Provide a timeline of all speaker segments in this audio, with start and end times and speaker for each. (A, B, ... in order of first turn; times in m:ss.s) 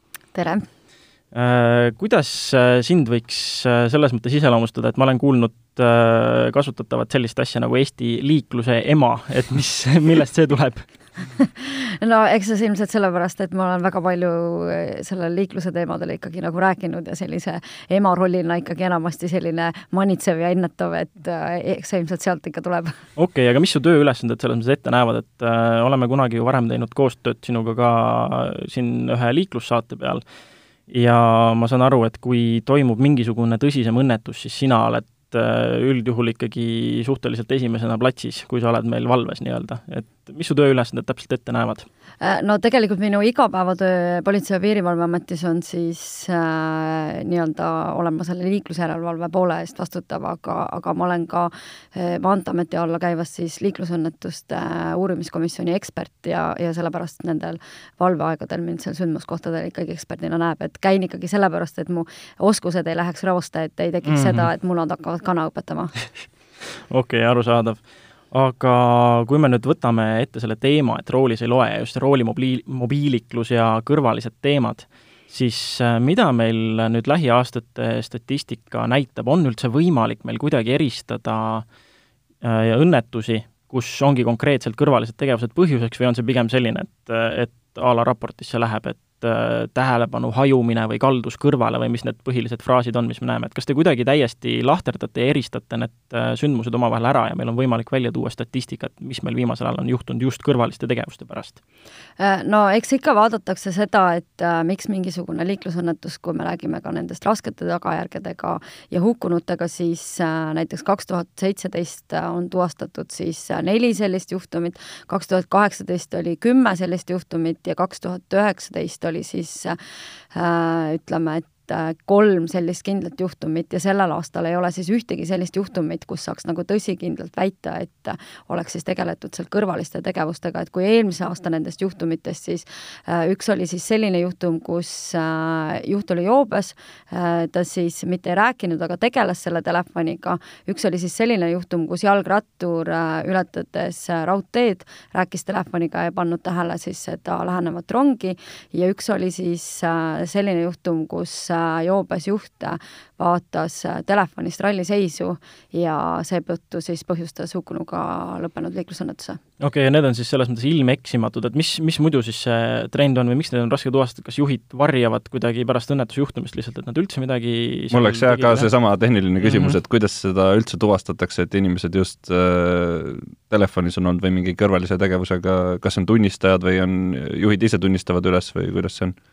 0:00.3-0:00.7 A
0:01.3-0:10.9 B
0:11.4-0:23.0 A
0:23.2-0:30.2 B
0:30.9-0:41.9 B
0:42.2-1:05.9 A
1:04.1-1:04.5 B
1:06.9-1:07.8 B
1:08.3-1:21.6 B
1:22.4-1:41.6 B
1:42.2-1:59.8 A
2:00.3-2:39.4 A
2:39.6-2:48.7 B
2:47.9-2:59.2 C
2:49.4-2:49.8 B